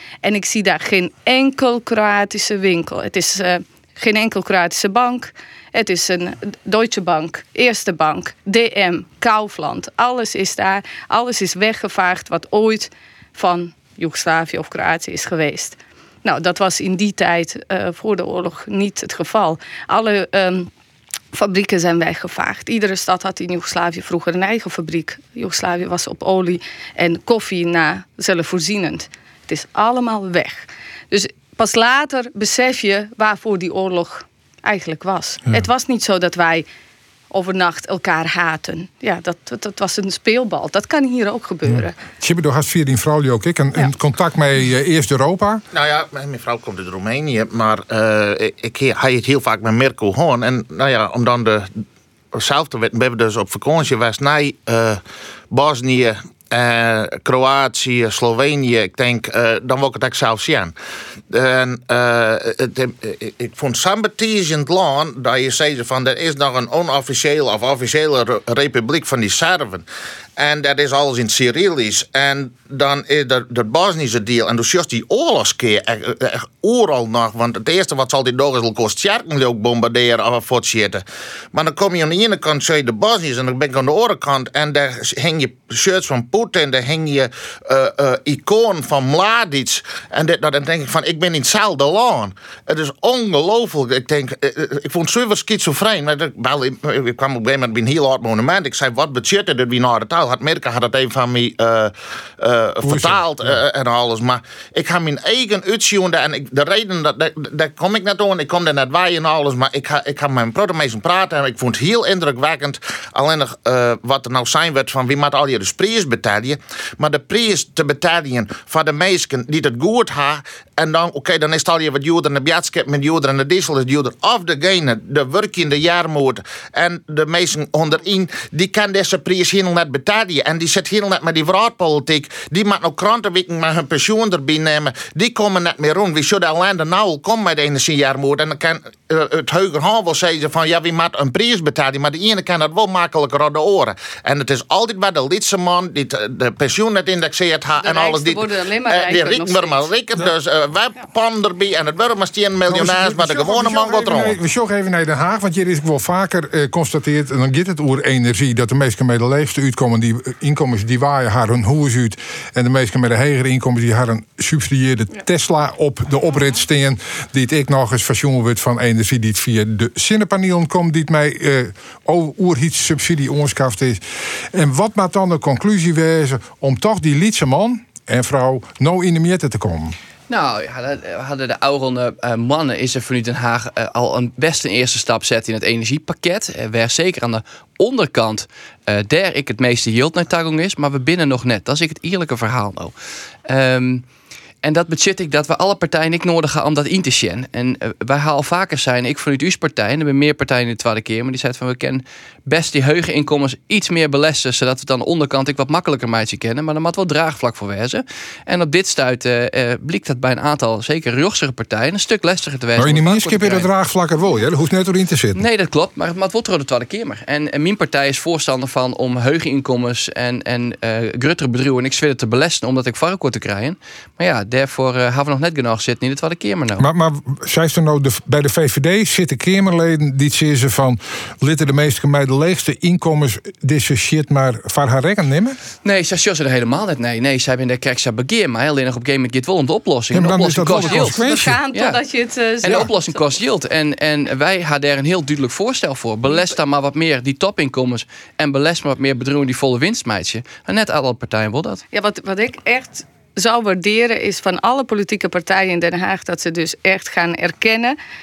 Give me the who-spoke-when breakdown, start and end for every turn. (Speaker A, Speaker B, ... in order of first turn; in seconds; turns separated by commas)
Speaker A: 0.2-20.7, Speaker A: 21.3-36.7, Speaker A: 37.3-42.0, Speaker B: 42.2-45.6, Speaker C: 45.7-51.7, Speaker C: 52.3-60.7, Speaker C: 61.3-69.8, Speaker C: 70.4-154.4, Speaker B: 102.8-103.5, Speaker A: 147.8-149.9, Speaker B: 152.7-180.0, Speaker D: 180.3-192.9, Speaker D: 193.5-194.0, Speaker D: 194.6-213.7, Speaker B: 212.8-215.4, Speaker D: 215.3-226.9, Speaker B: 226.8-235.6, Speaker D: 235.8-242.0, Speaker B: 240.1-241.6, Speaker A: 240.9-243.2, Speaker D: 242.6-251.8, Speaker A: 251.9-258.0